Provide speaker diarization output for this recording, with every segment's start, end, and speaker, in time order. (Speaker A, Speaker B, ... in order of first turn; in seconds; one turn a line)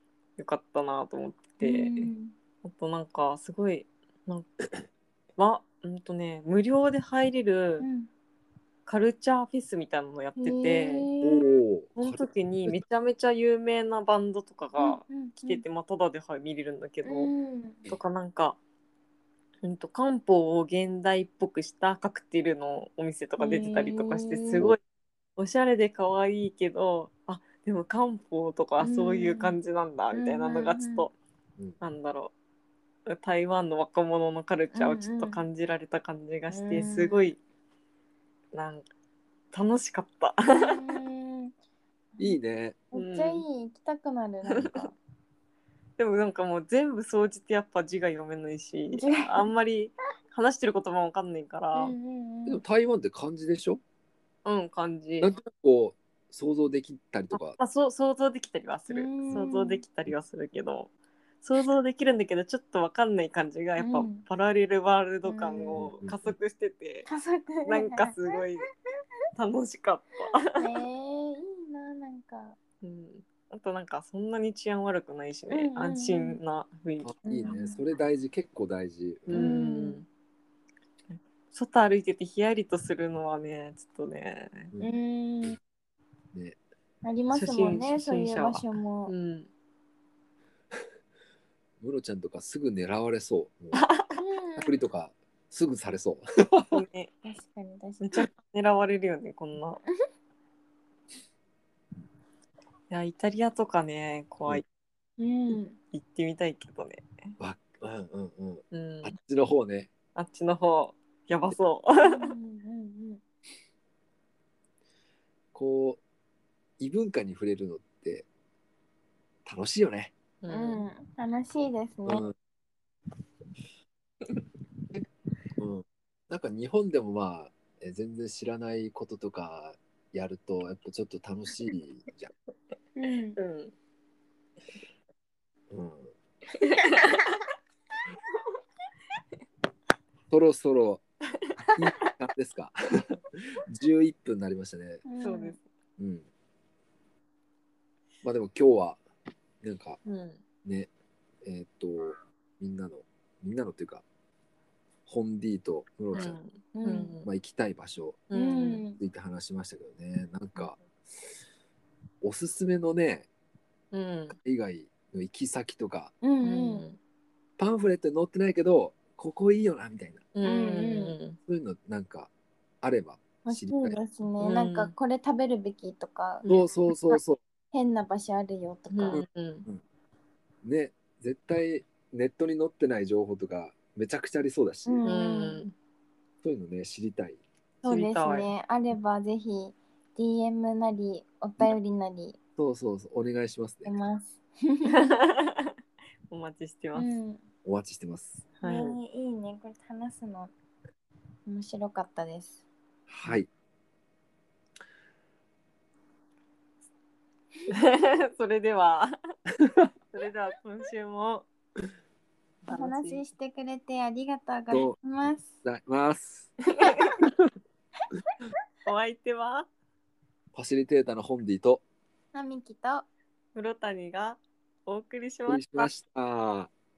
Speaker A: 0.4-2.1
Speaker B: 1.6-2.3
Speaker A: 2.6-4.5
Speaker A: 5.4-7.9
Speaker B: 7.8-8.1
Speaker A: 8.9-11.1
Speaker B: 10.4-11.5
Speaker C: 11.2-12.8
Speaker A: 11.9-17.3
Speaker B: 14.8-15.6
Speaker B: 17.0-17.8
Speaker A: 17.9-18.6
Speaker A: 19.6-24.8
Speaker B: 23.4-24.6
Speaker A: 25.4-31.1
Speaker B: 28.8-29.6
Speaker B: 30.1-31.1
Speaker A: 31.8-32.3
Speaker A: 33.1-37.4
Speaker B: 34.7-35.4
Speaker B: 36.5-37.3
Speaker A: 38.5-38.8
Speaker A: 39.5-41.0
Speaker B: 40.5-41.5
Speaker C: 42.2-42.8
Speaker B: 42.9-44.9
Speaker A: 42.9-43.4
Speaker A: 44.5-44.9
Speaker A: 46.0-51.9
Speaker B: 49.0-49.5
Speaker B: 51.7-52.6
Speaker C: 52.5-53.8
Speaker A: 54.4-55.3
Speaker C: 55.2-57.6
Speaker A: 57.3-60.9
Speaker B: 58.9-59.8
Speaker A: 61.4-67.1
Speaker B: 63.8-64.2
Speaker B: 65.2-65.8
Speaker C: 65.7-66.3
Speaker B: 67.0-68.4
Speaker A: 67.6-68.6
Speaker A: 69.3-70.7
Speaker B: 70.4-72.6
Speaker A: 72.8-77.5
Speaker B: 75.5-76.4
Speaker C: 77.0-79.5
Speaker B: 77.2-77.8
Speaker A: 79.3-80.1
Speaker B: 79.3-80.0
Speaker A: 81.1-84.7
Speaker B: 84.8-85.6
Speaker B: 87.0-89.1
Speaker A: 87.3-89.5
Speaker C: 91.8-93.8
Speaker A: 93.7-94.2
Speaker B: 94.2-94.8
Speaker C: 94.6-96.7
Speaker A: 96.7-97.1
Speaker B: 97.2-98.2
Speaker A: 98.0-99.8
Speaker A: 102.9-104.6
Speaker B: 105.2-105.8
Speaker A: 105.9-107.2
Speaker C: 107.4-109.9
Speaker A: 108.7-109.1
Speaker A: 110.2-112.3
Speaker B: 112.0-113.2
Speaker C: 115.5-116.0
Speaker C: 116.8-118.3
Speaker C: 119.5-120.1
Speaker A: 120.4-120.8
Speaker B: 120.5-122.2
Speaker C: 122.0-122.3
Speaker C: 125.6-132.3
Speaker B: 132.9-133.4
Speaker A: 133.3-133.7
Speaker C: 135.7-136.1
Speaker A: 136.6-137.4
Speaker C: 140.3-141.0
Speaker C: 141.8-145.0
Speaker B: 145.0-145.6
Speaker A: 145.2-145.7
Speaker C: 146.0-146.2
Speaker C: 148.2-149.0
Speaker C: 149.6-150.0
Speaker A: 150.0-150.4
Speaker C: 150.6-150.9
Speaker C: 151.4-154.0
Speaker C: 155.1-156.4
Speaker A: 156.1-157.2
Speaker B: 156.7-157.1
Speaker C: 157.2-158.2
Speaker A: 158.3-158.8
Speaker B: 158.3-159.0
Speaker C: 158.9-160.8
Speaker C: 162.2-163.3
Speaker A: 163.9-164.3
Speaker C: 164.3-166.1
Speaker B: 166.2-166.8
Speaker A: 166.4-167.0
Speaker C: 167.6-170.2
Speaker A: 170.3-171.4
Speaker B: 170.4-171.2
Speaker C: 171.5-172.3
Speaker C: 172.8-174.0
Speaker B: 173.4-176.4
Speaker A: 174.4-174.9
Speaker A: 176.4-177.2
Speaker C: 176.5-177.4
Speaker B: 177.7-179.2
Speaker A: 178.9-179.7
Speaker C: 179.1-179.8
Speaker C: 180.6-185.0
Speaker B: 184.8-185.6
Speaker A: 185.0-185.7
Speaker C: 186.4-187.4
Speaker A: 187.8-188.5
Speaker B: 187.8-192.4
Speaker C: 192.6-193.9
Speaker B: 193.8-195.1
Speaker A: 194.9-195.7
Speaker A: 196.3-197.1
Speaker B: 196.9-197.4
Speaker C: 197.6-198.4
Speaker A: 198.6-199.0
Speaker B: 198.6-200.5
Speaker B: 201.5-202.6
Speaker C: 203.1-203.5
Speaker A: 207.7-209.1
Speaker A: 210.1-211.5
Speaker A: 212.7-213.2
Speaker B: 212.7-215.5
Speaker C: 214.7-216.5
Speaker A: 216.7-217.2
Speaker A: 218.8-219.7
Speaker C: 220.5-221.8
Speaker B: 222.3-223.1
Speaker A: 223.5-225.9
Speaker C: 225.5-226.7